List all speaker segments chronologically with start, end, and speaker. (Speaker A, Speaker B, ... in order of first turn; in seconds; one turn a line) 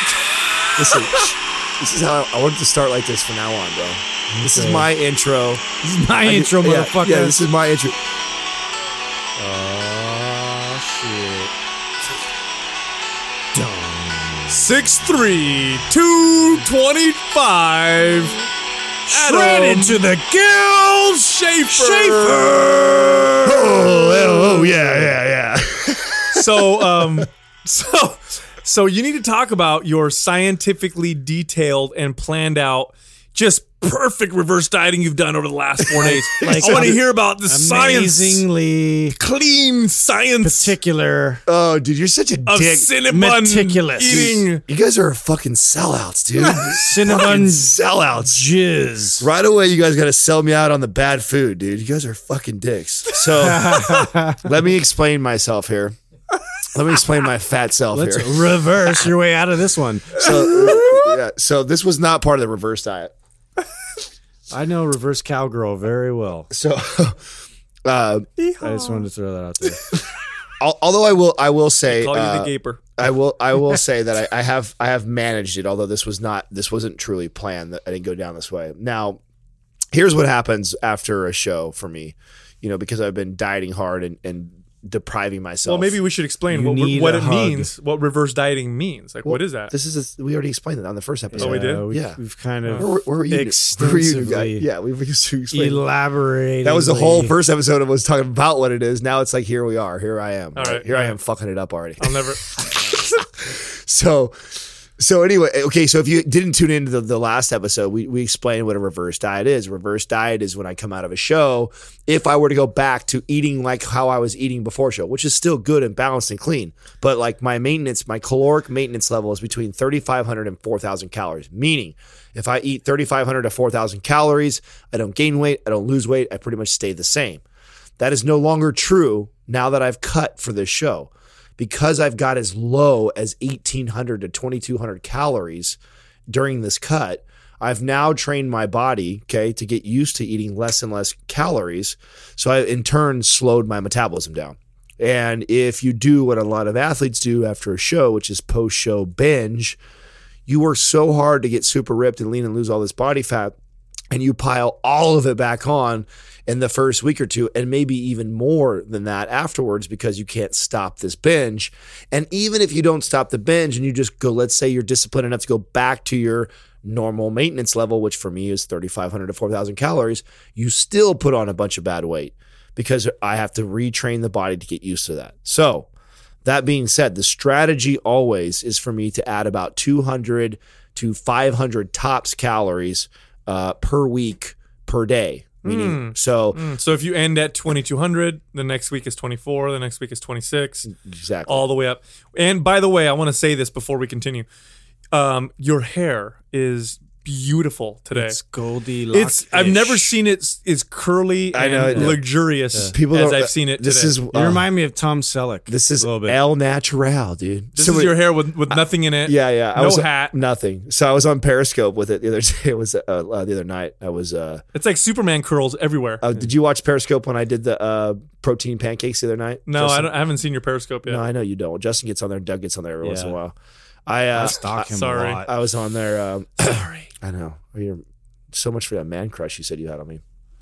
Speaker A: 0.8-5.6
Speaker B: 4.3-4.9
Speaker B: 5.8-7.5
Speaker A: 6.2-8.0
Speaker B: 9.3-11.5
Speaker B: 13.5-14.6
Speaker C: 14.5-18.4
Speaker B: 19.1-25.1
Speaker C: 19.1-20.1
Speaker C: 21.2-22.7
Speaker A: 23.4-26.6
Speaker C: 26.3-38.4
Speaker B: 36.0-39.1
Speaker A: 36.4-36.9
Speaker C: 39.1-40.7
Speaker B: 40.4-41.4
Speaker A: 41.5-42.9
Speaker C: 42.5-44.6
Speaker B: 43.1-44.3
Speaker A: 44.1-48.4
Speaker B: 46.4-49.3
Speaker A: 49.2-55.9
Speaker B: 53.3-54.4
Speaker A: 56.7-58.6
Speaker B: 57.9-61.0
Speaker A: 60.2-63.1
Speaker B: 64.5-66.5
Speaker A: 66.5-67.2
Speaker A: 67.8-68.3
Speaker C: 68.4-69.0
Speaker B: 68.6-70.0
Speaker A: 70.6-79.2
Speaker C: 71.9-72.8
Speaker A: 79.9-85.9
Speaker C: 85.6-89.7
Speaker B: 86.5-87.7
Speaker A: 89.2-92.2
Speaker B: 91.3-94.7
Speaker C: 91.4-91.8
Speaker A: 92.7-95.8
Speaker B: 95.5-97.3
Speaker A: 96.6-104.3
Speaker C: 100.5-101.2
Speaker C: 102.0-102.4
Speaker A: 105.0-127.4
Speaker A: 128.0-135.8
Speaker A: 136.3-149.8
Speaker A: 150.5-153.5
Speaker A: 154.1-175.9
Speaker A: 176.4-186.6
Speaker C: 185.6-190.9
Speaker A: 190.9-191.7
Speaker C: 191.5-194.4
Speaker C: 195.1-198.4
Speaker B: 198.1-200.1
Speaker C: 199.1-204.2
Speaker A: 201.5-202.2
Speaker B: 201.9-202.2
Speaker A: 202.9-204.6
Speaker B: 204.3-206.4
Speaker A: 205.7-214.6
Speaker C: 207.8-210.3
Speaker C: 214.7-216.2
Speaker A: 216.2-220.1
Speaker C: 219.7-221.2
Speaker A: 221.1-223.5
Speaker B: 223.0-223.3
Speaker A: 224.1-224.9
Speaker B: 224.3-225.5
Speaker C: 224.9-225.4
Speaker A: 225.4-230.2
Speaker C: 226.6-227.1